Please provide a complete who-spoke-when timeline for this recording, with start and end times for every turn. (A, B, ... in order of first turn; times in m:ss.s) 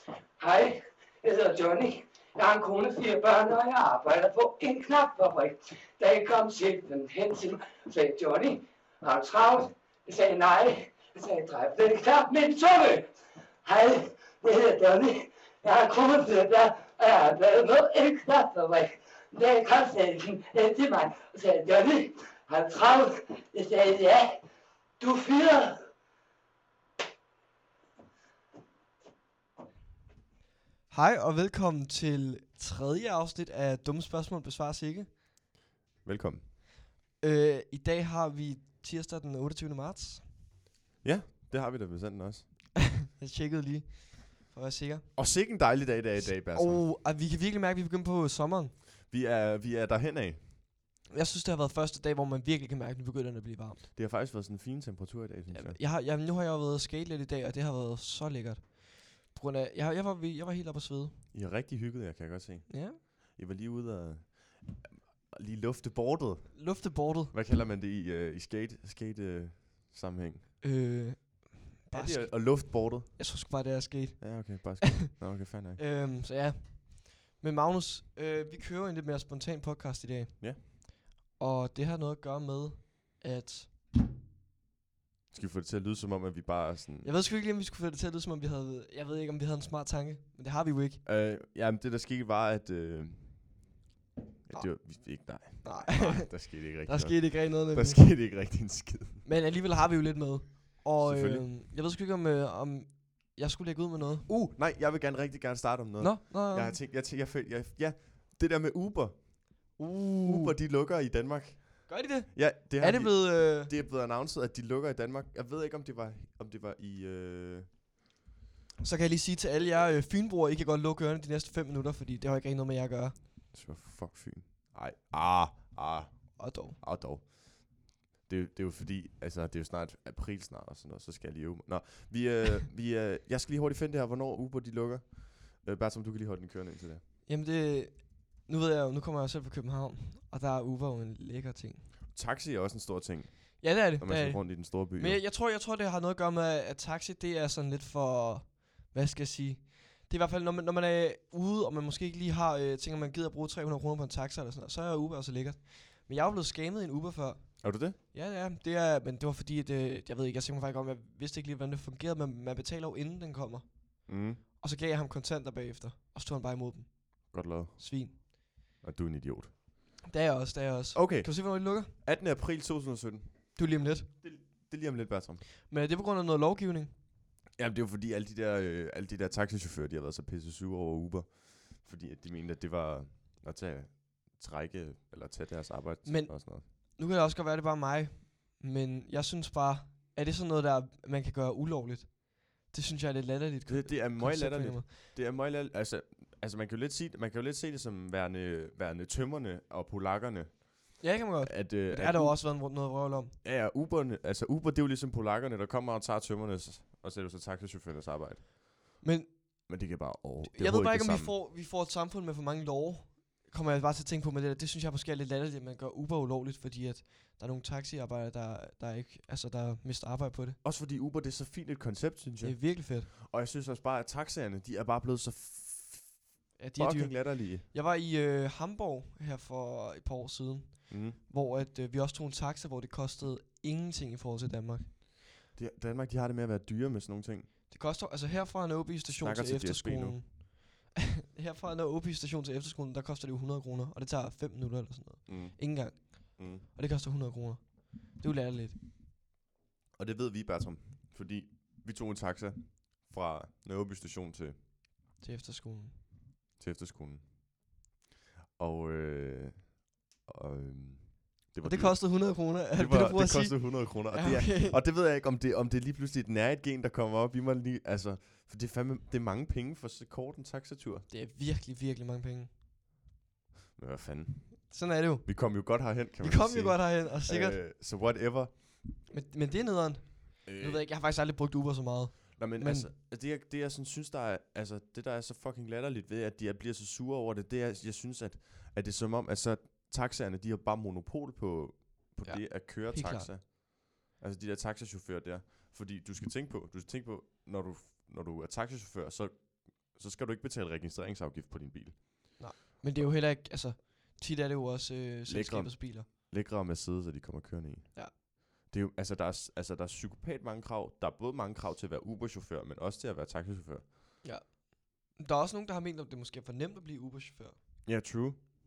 0:00.4-0:13.1 A
0:13.6-0:24.4 A
0:25.0-0:25.8 A
0:30.9-0:35.1 B
0:36.0-0:36.4 C
0:37.2-0:40.3 B
0:41.0-0:42.4 C
0:43.0-0:48.8 B
0:45.2-0:46.8 C
0:49.1-0:50.4 C
0:51.1-0:53.9 B
0:53.9-0:55.8 C
0:55.5-1:01.2 B
1:01.3-1:10.5 C
1:02.7-1:03.0 B
1:06.5-1:07.3 B
1:10.6-1:15.1 B
1:11.9-1:13.2 C
1:14.2-1:15.8 C
1:15.8-1:20.8 B
1:21.4-1:23.7 B
1:25.3-1:27.1 C
1:27.0-1:31.0 B
1:31.0-1:33.7 C
1:34.4-1:39.2 C
1:34.5-1:38.1 B
1:39.2-1:44.3 B
1:41.0-1:41.5 C
1:44.3-1:57.7 C
1:46.0-1:46.8 B
1:49.8-1:50.6 B
1:51.9-1:53.7 B
1:58.8-2:03.2 B
2:03.5-2:17.0 C
2:06.4-2:06.8 B
2:17.3-2:21.9 B
2:22.1-2:25.2 C
2:23.6-2:48.2 B
2:37.6-2:38.0 C
2:44.1-2:44.4 C
2:47.3-2:48.2 C
2:48.8-2:49.6 C
2:50.0-2:51.9 B
2:50.9-2:53.6 C
2:53.5-2:54.1 B
2:54.2-2:55.4 C
2:55.7-2:56.9 B
2:57.6-3:06.6 C
3:06.0-3:14.9 B
3:13.6-3:22.5 C
3:21.0-3:23.4 B
3:23.4-3:29.0 C
3:29.0-3:29.7 B
3:29.7-3:31.3 C
3:30.5-3:40.6 B
3:40.6-3:46.2 C
3:42.4-3:43.1 B
3:46.6-3:54.9 B
3:46.8-3:47.6 C
3:50.9-3:51.2 C
3:55.5-3:57.5 C
3:57.7-4:08.8 B
3:59.2-4:00.2 C
4:05.3-4:06.6 C
4:10.0-4:14.6 C
4:15.2-4:16.0 B
4:16.6-4:17.3 C
4:18.6-4:31.0 C
4:21.6-4:24.8 B
4:31.1-4:32.5 B
4:33.8-4:38.6 C
4:34.7-4:37.6 B
4:39.1-4:42.9 B
4:40.4-4:40.8 C
4:42.4-5:03.1 C
4:52.2-4:53.3 B
5:02.4-5:06.1 B
5:05.3-5:13.9 C
5:14.2-5:17.6 B
5:17.8-5:18.4 C